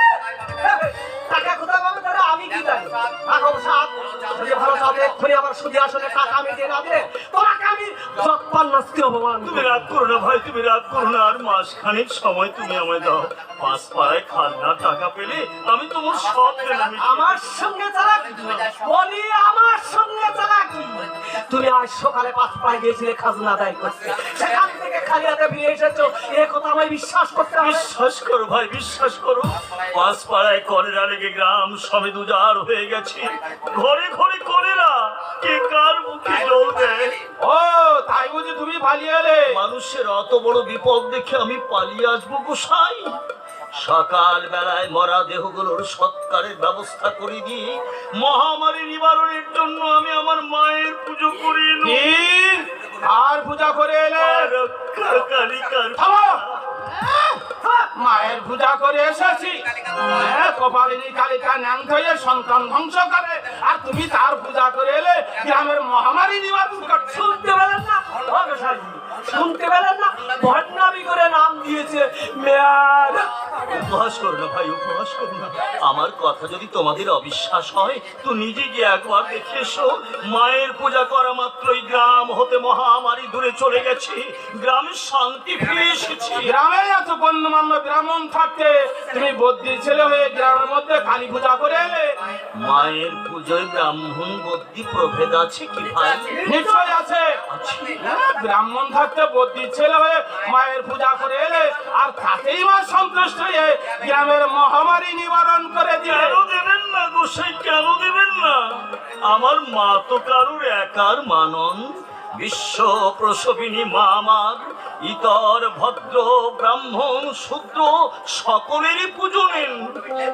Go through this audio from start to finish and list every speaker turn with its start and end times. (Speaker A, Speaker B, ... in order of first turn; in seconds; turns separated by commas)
Speaker A: 0.5-9.9, Speaker B: 9.4-17.4, Speaker A: 17.0-27.9, Speaker B: 27.6-37.1, Speaker C: 37.4-39.4, Speaker B: 39.5-43.2, Speaker B: 43.7-52.1, Speaker C: 51.8-54.5, Speaker B: 54.2-56.3, Speaker C: 56.0-56.5, Speaker C: 57.9-67.2, Speaker A: 67.0-73.3, Speaker B: 73.7-86.5, Speaker C: 86.4-92.2, Speaker B: 92.6-96.4, Speaker A: 96.3-96.9, Speaker C: 96.4-97.4, Speaker B: 97.5-98.1, Speaker C: 98.0-106.4, Speaker B: 106.1-108.7, Speaker B: 109.2-120.0